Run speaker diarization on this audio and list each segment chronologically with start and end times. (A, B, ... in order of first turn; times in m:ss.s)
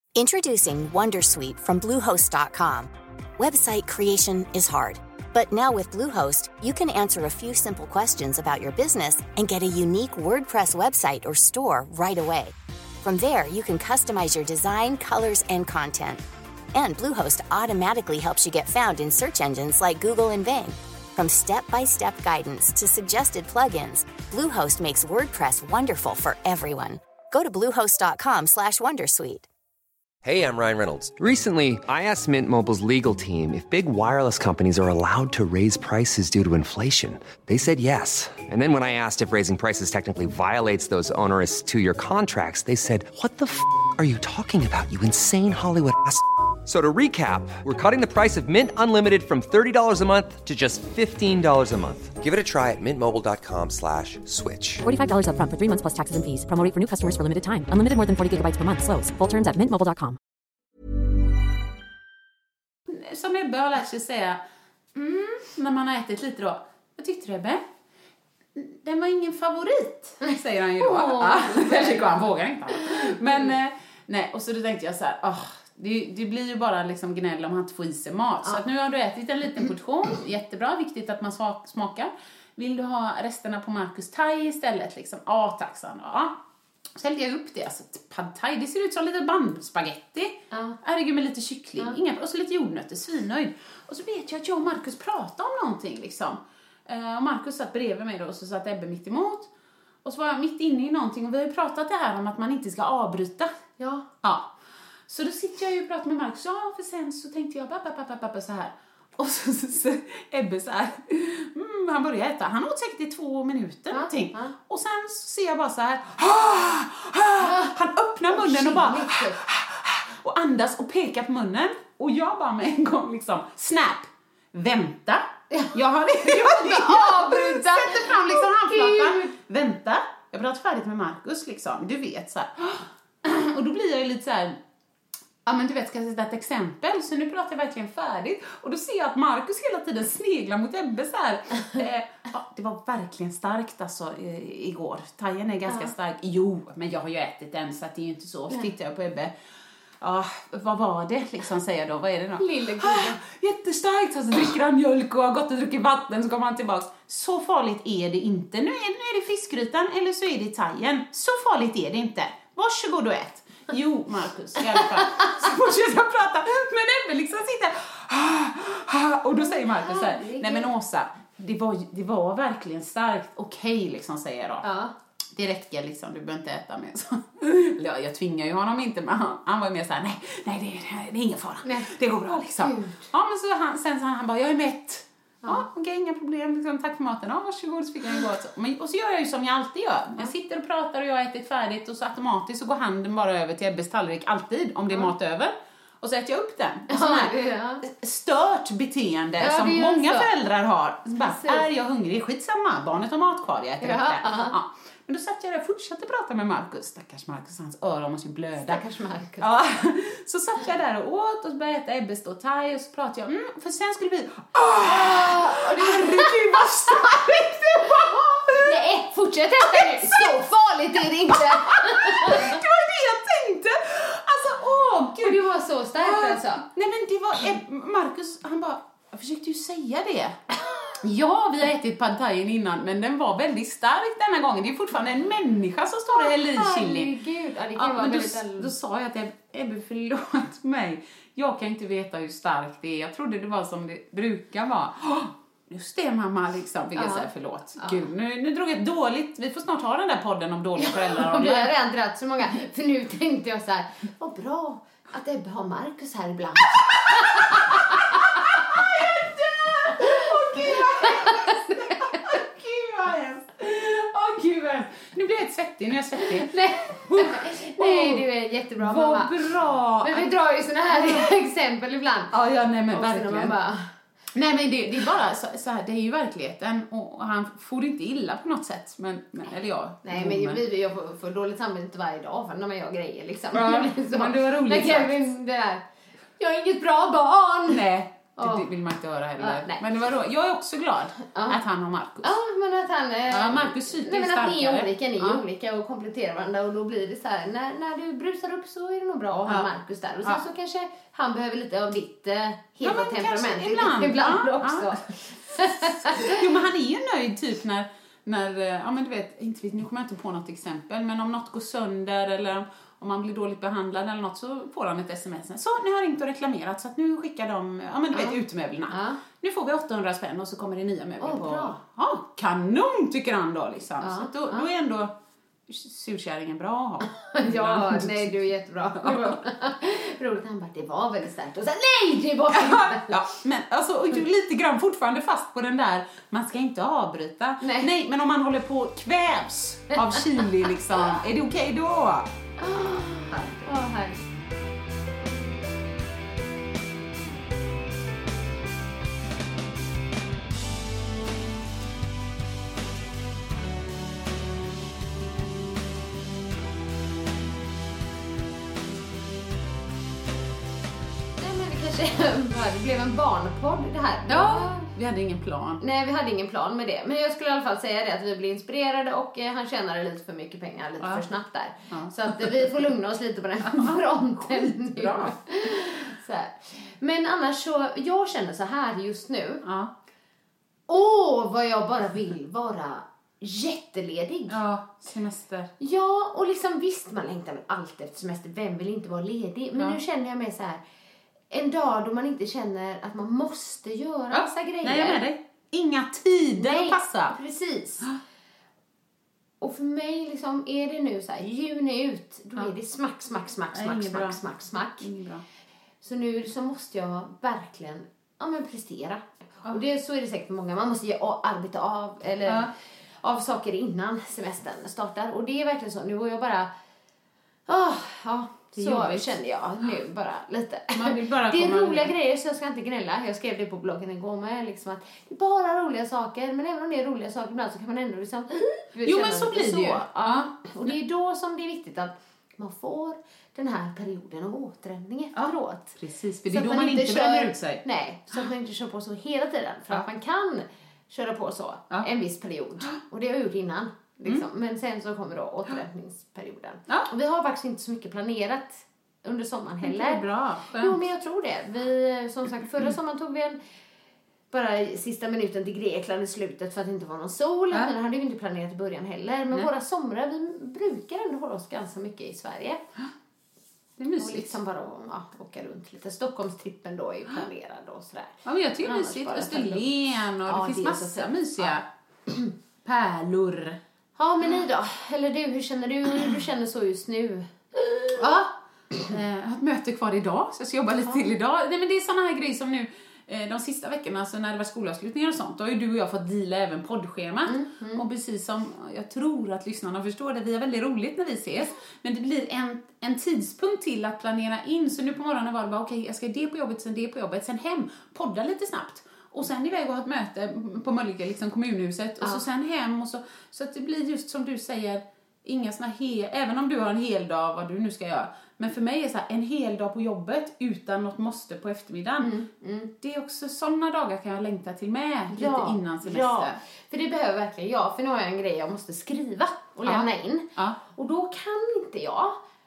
0:00.1-0:16.2 A
0:16.7-0:29.5 A
0:30.2-0:54.8 B
0:54.8-1:00.2 C
1:02.9-1:04.4 D
1:04.9-1:07.6 D
1:08.5-1:26.4 D
1:10.2-1:12.2 E
1:12.8-1:13.5 E
1:27.0-1:39.5 D
1:30.5-1:30.8 E
1:40.0-1:43.5 D
1:43.8-1:44.0 E
1:44.2-1:44.5 D
1:45.1-2:14.6 D
1:53.9-1:54.5 E
1:57.4-1:57.8 E
1:58.3-1:59.4 E
2:05.5-2:09.3 E
2:15.4-2:29.3 D
2:30.0-2:54.6 D
2:32.4-2:33.2 E
2:49.4-2:50.7 E
2:54.6-2:54.9 E
2:55.3-3:28.8 D
3:01.6-3:01.9 E
3:02.6-3:03.1 E
3:16.9-3:17.8 E
3:19.4-3:20.3 E
3:21.2-3:21.7 E
3:23.8-3:24.6 E
3:28.6-3:29.5 E
3:29.4-3:38.8 D
3:34.8-3:37.1 E
3:38.5-3:42.6 E
3:39.6-3:50.4 D
3:45.2-3:46.6 E
3:51.0-3:57.1 D
3:56.1-3:58.7 E
3:57.8-4:11.7 D
4:06.9-4:08.0 E
4:10.8-4:18.9 E
4:16.9-4:28.2 D
4:19.9-4:22.4 E
4:26.2-4:29.3 E
4:28.8-4:30.3 D
4:30.0-4:32.3 E
4:30.9-4:31.3 D
4:32.3-4:33.5 D
4:32.9-4:33.9 E
4:34.3-4:40.6 D
4:40.0-4:45.8 E
4:43.5-4:45.2 D
4:46.4-4:47.8 E
4:47.7-4:52.3 D
4:48.4-4:48.6 E
4:49.4-4:49.8 E
4:51.3-4:51.6 E
4:52.2-5:06.4 E
4:53.3-4:55.4 D
5:02.8-5:25.1 D
5:18.1-5:19.2 E
5:21.2-5:21.8 E
5:24.0-5:24.7 E
5:25.7-5:28.4 D
5:27.3-5:33.2 E
5:29.0-5:29.4 D
5:32.5-5:42.3 D
5:37.6-5:37.9 E
5:39.9-5:40.2 E
5:42.6-5:44.2 E
5:43.3-5:43.7 D
6:01.4-6:04.9 E
6:04.3-6:05.8 D
6:05.8-6:19.6 E
6:11.0-6:11.2 D
6:11.9-6:12.8 D
6:13.6-6:15.4 D
6:19.6-6:19.9 D
6:20.9-6:24.6 E
6:24.5-6:25.7 D
6:25.8-6:30.8 E
6:31.5-6:35.2 E
6:34.3-6:37.3 D
6:36.6-6:38.1 E
6:39.6-6:45.1 E
6:43.7-6:44.4 D
6:45.0-6:45.4 D
6:46.0-6:52.7 E
6:52.4-6:52.7 D
6:53.2-6:56.7 E
6:57.7-7:16.0 E
6:58.8-6:59.4 D
7:00.9-7:02.1 D
7:09.0-7:10.6 D
7:15.3-7:17.8 D
7:16.5-7:33.6 E
7:29.8-7:31.0 D
7:34.5-7:42.8 E
7:44.0-7:44.6 D
7:44.2-7:52.5 E
7:48.4-7:51.8 D
7:52.8-7:53.8 D
7:54.2-7:58.5 E
7:59.0-8:32.3 D
8:07.5-8:08.0 E
8:32.2-8:32.9 E
8:33.0-8:36.6 D
8:35.3-8:42.4 E
8:39.8-8:40.8 D